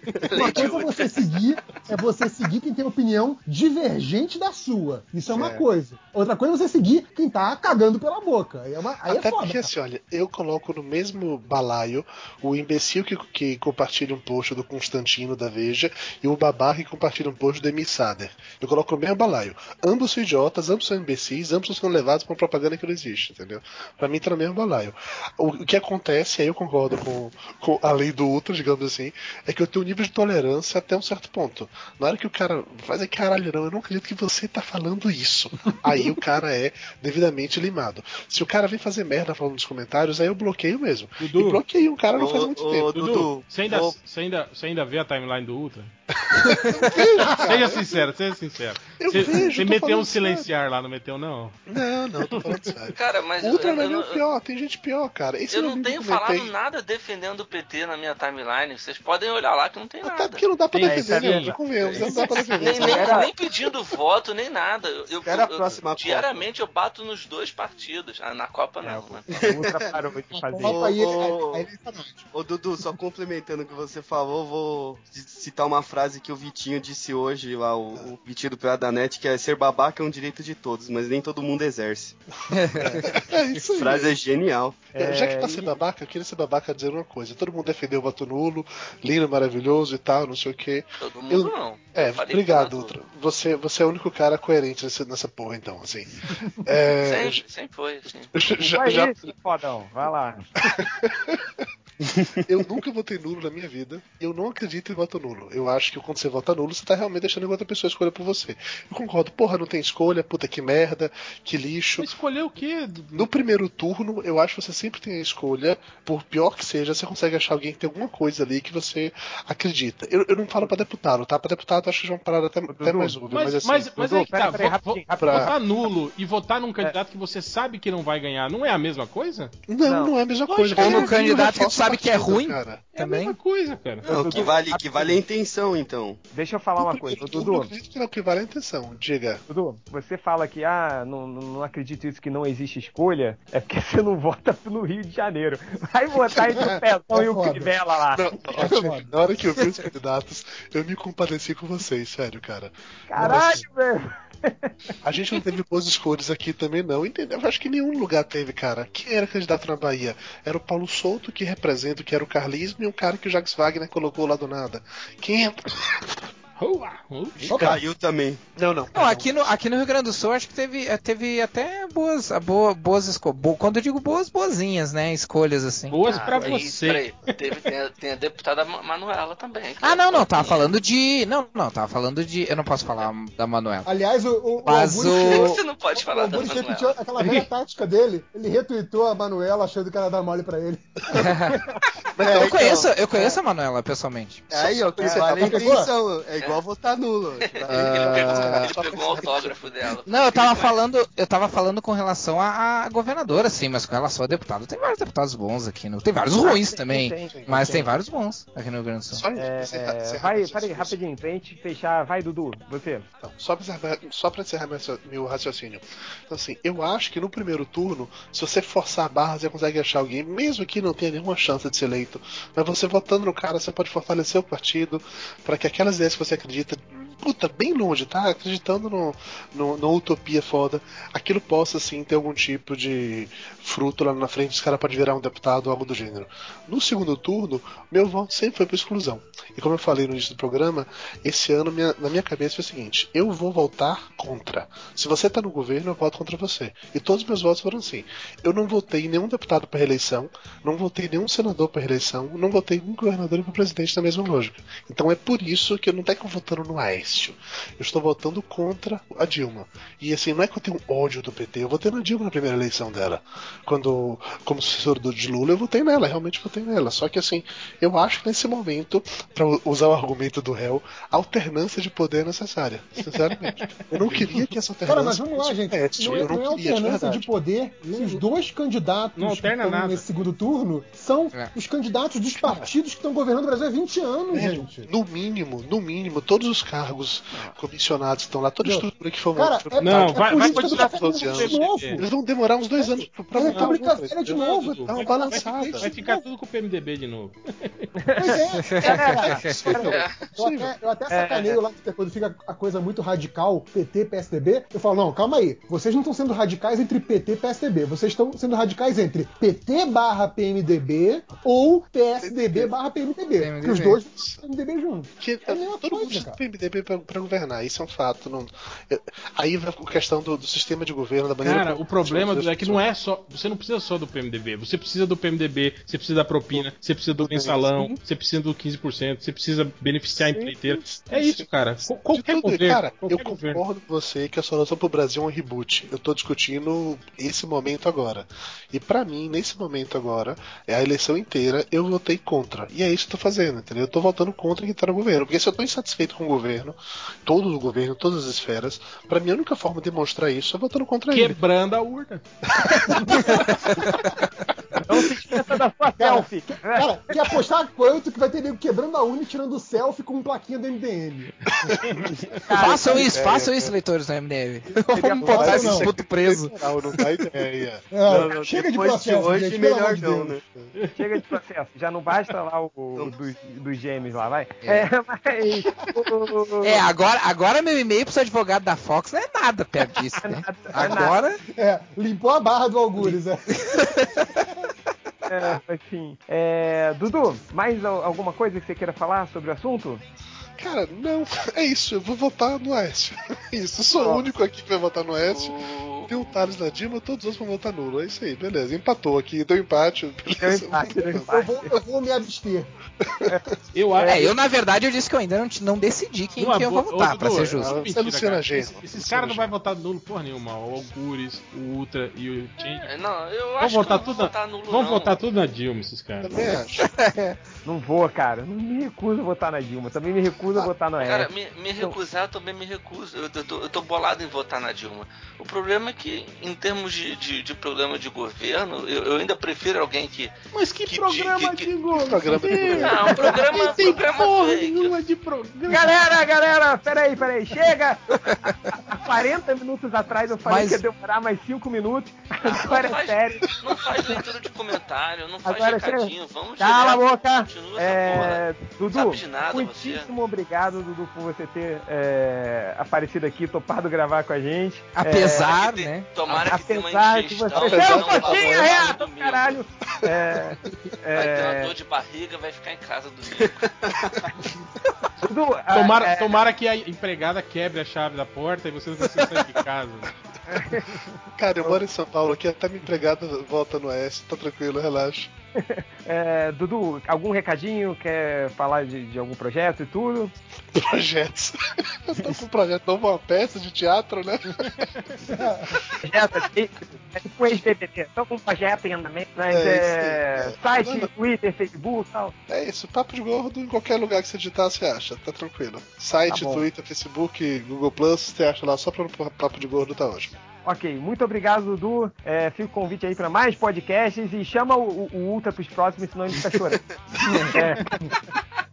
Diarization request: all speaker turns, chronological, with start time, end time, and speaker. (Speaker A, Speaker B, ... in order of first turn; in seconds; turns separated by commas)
Speaker A: 0.3-1.4, Speaker B: 0.3-9.7, Speaker C: 9.1-43.0, Speaker D: 41.2-41.6, Speaker E: 42.1-44.0, Speaker D: 42.9-45.9, Speaker C: 46.3-48.1, Speaker B: 47.2-47.5, Speaker D: 47.4-51.6, Speaker C: 49.0-50.5, Speaker C: 51.7-56.5, Speaker A: 52.9-54.2, Speaker A: 55.5-61.0, Speaker C: 60.0-63.1, Speaker F: 60.7-61.6, Speaker A: 61.8-69.5, Speaker E: 61.9-63.3, Speaker F: 62.8-63.2, Speaker E: 65.2-66.5, Speaker F: 68.8-70.8, Speaker E: 69.3-70.0, Speaker B: 70.3-72.3, Speaker E: 70.6-71.7, Speaker E: 72.3-82.2, Speaker G: 82.5-83.0, Speaker C: 83.0-84.2, Speaker E: 83.8-84.8, Speaker C: 84.9-97.4, Speaker F: 84.9-85.8, Speaker A: 91.0-93.0, Speaker A: 97.0-98.3, Speaker C: 98.1-99.3, Speaker F: 98.6-100.5, Speaker C: 100.7-101.4, Speaker C: 102.5-112.1, Speaker D: 112.0-113.3, Speaker C: 113.1-123.9, Speaker F: 122.7-123.2, Speaker D: 123.3-129.6, Speaker F: 124.0-125.5, Speaker C: 125.2-125.5, Speaker C: 129.7-132.8, Speaker F: 129.8-130.2, Speaker D: 130.5-131.2, Speaker G: 130.8-133.4, Speaker D: 132.9-134.5, Speaker E: 134.1-136.2, Speaker F: 134.1-135.2, Speaker F: 136.3-137.7, Speaker C: 136.8-139.4, Speaker F: 139.5-148.9, Speaker B: 147.1-147.7, Speaker C: 148.1-153.6, Speaker B: 148.6-149.1, Speaker F: 153.1-154.7, Speaker B: 153.2-153.5, Speaker C: 155.0-166.3, Speaker D: 166.6-167.6, Speaker C: 167.4-167.7, Speaker E: 167.4-168.4, Speaker B: 167.5-167.8, Speaker C: 168.6-169.4, Speaker G: 168.9-176.6, Speaker D: 175.9-177.4, Speaker F: 176.1-176.5, Speaker A: 176.3-180.7, Speaker G: 179.8-183.9, Speaker B: 183.8-191.8, Speaker G: 184.6-185.6, Speaker A: 185.2-187.0, Speaker D: 187.2-187.5, Speaker G: 191.2-191.6, Speaker C: 192.2-192.8, Speaker E: 192.3-193.0, Speaker G: 192.3-194.5, Speaker E: 194.5-198.7, Speaker F: 195.0-195.5, Speaker B: 195.0-195.9, Speaker A: 197.4-200.8, Speaker C: 197.6-199.7, Speaker G: 198.3-198.7, Speaker G: 200.1-209.2, Speaker F: 206.4-207.9, Speaker C: 207.3-207.7, Speaker C: 209.1-211.0, Speaker F: 209.3-213.1, Speaker C: 213.2-277.3, Speaker D: 273.0-274.5, Speaker B: 274.9-284.9, Speaker D: 277.9-278.2, Speaker D: 279.2-280.0, Speaker C: 282.4-282.7, Speaker C: 284.3-295.9, Speaker B: 288.6-292.1, Speaker D: 289.8-292.0, Speaker B: 292.8-296.2, Speaker D: 293.4-293.7, Speaker D: 294.3-297.9, Speaker F: 298.0-299.9, Speaker B: 298.2-316.4, Speaker G: 298.6-299.6, Speaker C: 299.0-300.7, Speaker A: 299.9-300.2, Speaker F: 301.1-301.6, Speaker C: 312.2-312.7, Speaker G: 313.4-314.0, Speaker C: 314.1-314.4, Speaker C: 315.2-322.8, Speaker D: 321.4-333.6, Speaker C: 330.9-351.4, Speaker D: 351.1-352.2, Speaker F: 352.6-353.1, Speaker B: 352.9-353.5, Speaker G: 353.6-354.1, Speaker F: 354.9-356.9, Speaker B: 356.0-362.0, Speaker C: 361.6-361.9, Speaker F: 362.5-363.7, Speaker G: 362.5-366.5, Speaker F: 364.9-365.9, Speaker B: 365.2-365.9, Speaker C: 366.0-368.1, Speaker B: 367.9-370.4, Speaker E: 368.1-370.4, Speaker C: 370.4-370.7, Speaker F: 371.0-376.9, Speaker G: 374.6-374.9, Speaker G: 376.6-381.4, Speaker F: 380.2-381.2, Speaker B: 380.8-383.9, Speaker G: 383.6-384.4, Speaker F: 385.3-390.0, Speaker C: 390.6-395.6, Speaker F: 394.0-394.2, Speaker A: 395.3-396.5, Speaker C: 396.1-401.3, Speaker F: 400.3-401.7, Speaker B: 401.3-402.7, Speaker D: 403.7-404.3, Speaker F: 404.0-404.3, Speaker G: 404.0-407.8, Speaker D: 406.4-412.9, Speaker C: 407.5-409.5, Speaker A: 412.8-415.2, Speaker D: 413.6-416.5, Speaker C: 416.2-416.9, Speaker F: 417.6-421.9, Speaker A: 421.0-430.4, Speaker D: 430.5-436.1, Speaker C: 430.9-433.7, Speaker A: 431.1-431.7, Speaker A: 432.8-435.0, Speaker F: 435.7-438.2, Speaker G: 438.3-438.7, Speaker F: 438.9-443.5, Speaker G: 440.4-440.8, Speaker A: 442.4-450.1, Speaker F: 445.4-455.5, Speaker G: 454.9-456.1, Speaker A: 455.3-459.6, Speaker F: 456.3-461.7, Speaker C: 457.5-458.9, Speaker A: 461.1-463.7, Speaker E: 463.4-464.2, Speaker F: 465.2-466.3, Speaker D: 465.7-470.1, Speaker F: 470.5-471.0, Speaker C: 471.4-475.3, Speaker F: 475.6-480.3, Speaker C: 480.7-484.9, Speaker D: 484.6-485.1, Speaker B: 485.3-485.8, Speaker F: 486.0-492.3, Speaker C: 489.5-491.1, Speaker C: 492.5-500.4, Speaker F: 496.3-496.6, Speaker F: 500.6-506.8, Speaker B: 507.3-508.1, Speaker F: 507.3-507.9